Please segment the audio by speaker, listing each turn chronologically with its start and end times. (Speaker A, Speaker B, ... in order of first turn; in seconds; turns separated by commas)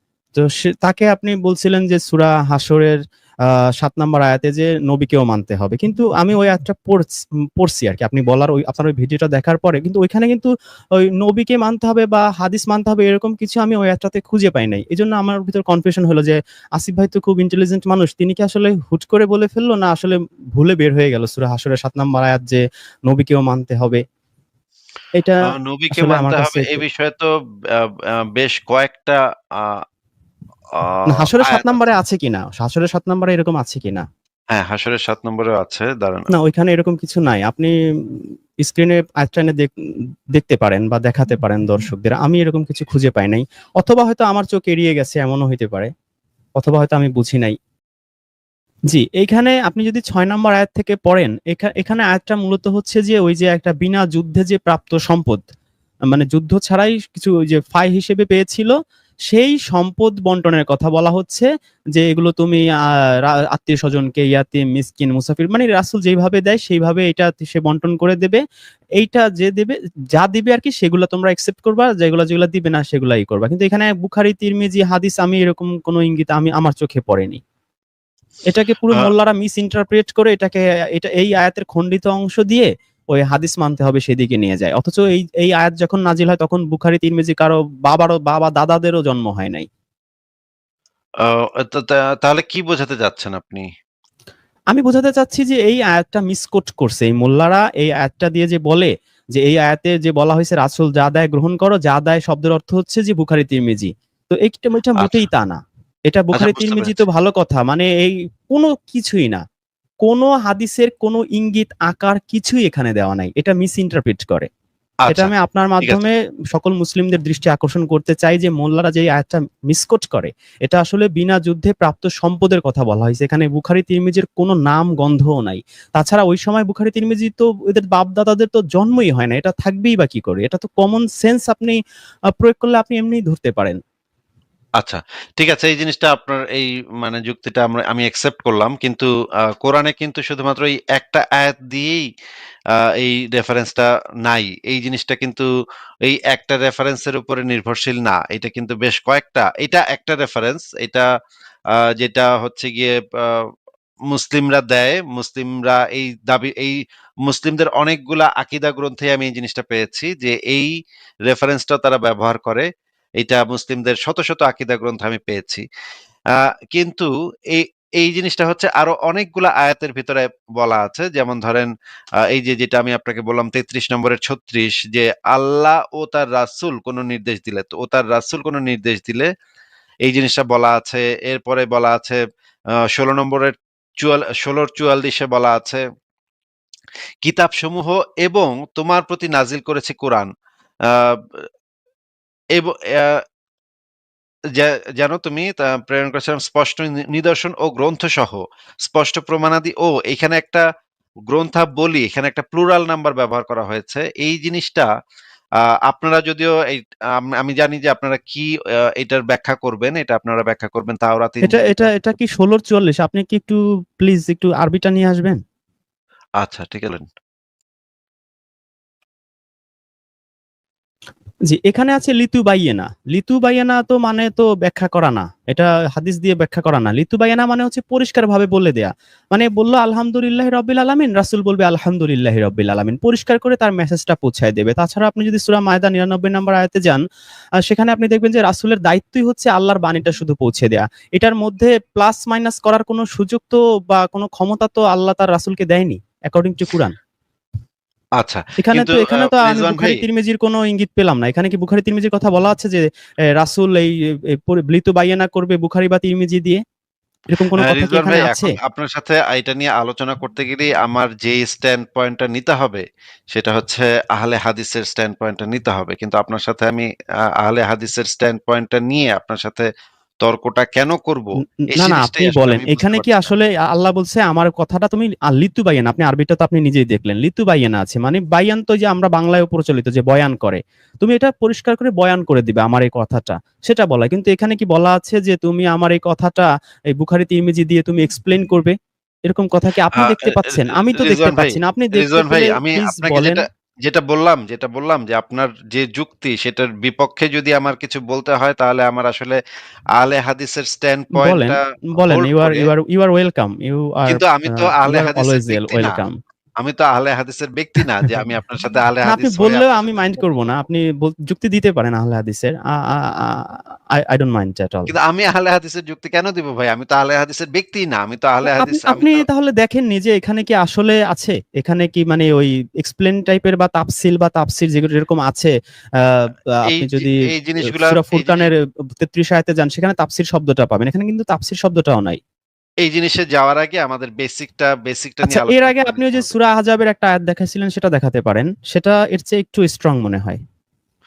Speaker A: 0.3-2.9, Speaker A: 3.8-24.0, Speaker A: 25.1-26.8, Speaker B: 25.5-29.8, Speaker B: 30.8-31.8, Speaker A: 31.1-34.0, Speaker B: 34.5-36.3, Speaker A: 36.3-39.7, Speaker A: 40.3-45.9, Speaker A: 46.6-47.5, Speaker A: 48.9-55.5, Speaker A: 56.1-58.7, Speaker A: 59.3-62.6, Speaker A: 63.3-68.4, Speaker A: 69.0-77.4, Speaker A: 78.5-89.7, Speaker B: 91.3-93.6, Speaker A: 94.7-109.4, Speaker B: 105.0-105.2, Speaker B: 106.3-107.0, Speaker A: 110.0-114.5, Speaker A: 115.1-131.8, Speaker A: 132.4-133.8, Speaker B: 134.8-139.1, Speaker B: 139.6-142.0, Speaker B: 143.0-145.4, Speaker B: 146.0-151.1, Speaker B: 152.0-153.4, Speaker B: 154.1-160.7, Speaker B: 161.3-162.7, Speaker B: 163.2-165.6, Speaker B: 166.4-171.7, Speaker B: 172.3-179.3, Speaker B: 180.1-182.2, Speaker B: 182.9-185.8, Speaker B: 187.2-190.3, Speaker B: 190.9-191.4, Speaker B: 192.6-193.2, Speaker B: 194.6-200.6, Speaker B: 201.3-204.9, Speaker B: 205.9-208.5, Speaker B: 209.0-211.9, Speaker A: 211.4-215.4, Speaker B: 216.4-217.1, Speaker A: 221.5-237.0, Speaker A: 237.7-246.9, Speaker B: 248.2-250.0, Speaker A: 248.6-256.6, Speaker A: 257.3-258.5, Speaker B: 257.6-262.8, Speaker B: 263.3-266.9, Speaker B: 267.4-269.7, Speaker B: 270.2-273.3, Speaker A: 271.6-288.8, Speaker A: 289.3-293.4, Speaker B: 289.9-299.4, Speaker B: 300.0-302.7, Speaker A: 301.1-306.1, Speaker B: 304.1-306.0, Speaker B: 306.6-310.1, Speaker A: 309.1-314.9, Speaker B: 314.9-319.2, Speaker A: 318.4-325.5, Speaker A: 326.1-332.2, Speaker B: 326.7-328.5, Speaker B: 332.8-336.3, Speaker A: 335.2-340.4